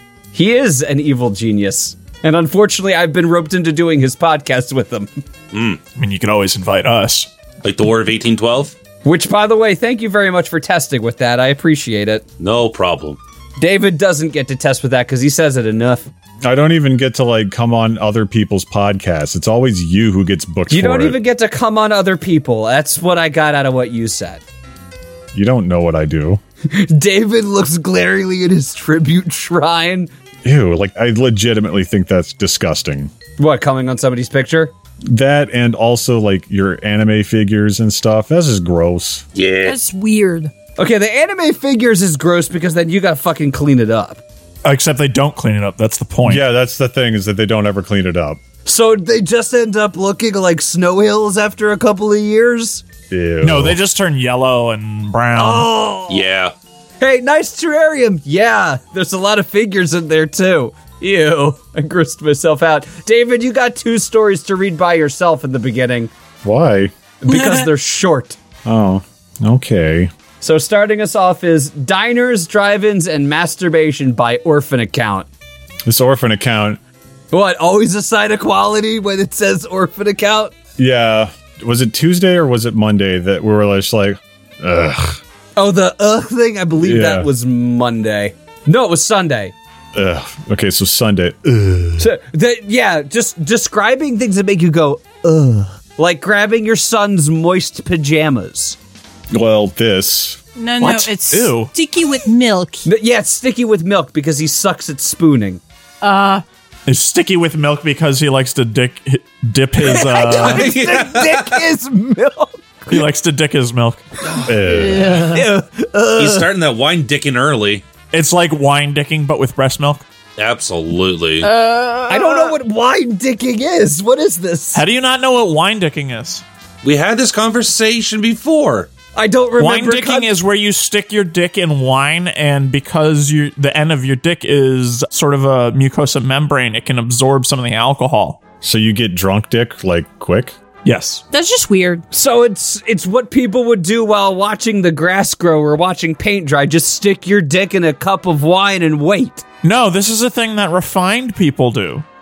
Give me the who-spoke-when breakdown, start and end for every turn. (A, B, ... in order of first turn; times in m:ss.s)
0:00.3-0:05.1 A
0:05.5-0:05.8 B
0:06.0-0:07.3 C
0:07.6-0:08.8 B
0:09.0-0:12.2 A
0:12.4-0:13.2 B
0:13.6-0:16.1 A
0:16.4-0:21.2 D
0:20.7-0:24.4 A
0:25.3-0:26.4 D
0:26.6-0:30.1 A
0:30.4-0:33.1 D
0:33.4-0:34.7 A
0:35.1-0:39.2 D
0:39.4-0:39.8 B
0:39.6-0:40.5 E
0:40.8-0:44.2 A
0:44.6-0:46.4 C
0:46.2-0:48.4 D
0:48.7-0:52.8 A
0:53.1-0:53.8 D
0:53.4-0:55.7 C
0:55.4-0:56.2 A
0:56.1-0:56.5 B
0:57.0-1:06.1 A
1:06.4-1:06.9 D
1:07.2-1:08.4 A
1:07.3-1:07.6 E
1:08.6-1:10.1 D
1:10.4-1:15.3 A
1:15.9-1:16.8 D
1:17.3-1:20.5 A
1:20.8-1:25.2 D
1:25.6-1:29.5 A
1:26.8-1:27.3 D
1:29.9-1:32.1 D
1:32.0-1:38.8 A
1:39.3-1:40.4 D
1:40.6-1:42.9 E
1:40.8-1:41.7 C
1:42.8-1:45.6 A
1:46.0-1:46.4 E
1:46.9-1:50.7 C
1:49.8-1:53.0 A
1:50.4-1:51.6 B
1:52.9-1:54.0 C
1:54.4-1:55.4 D
1:54.7-1:55.4 E
1:55.2-1:56.5 A
1:56.2-1:57.8 B
1:58.1-2:00.0 C
2:00.4-2:01.5 B
2:01.4-2:02.5 E
2:02.1-2:04.8 A
2:04.7-2:06.4 C
2:06.8-2:08.9 B
2:09.2-2:10.3 A
2:09.6-2:18.4 C
2:18.6-2:20.6 D
2:20.8-2:21.2 C
2:21.3-2:22.0 E
2:22.1-2:29.4 A
2:29.6-2:32.0 C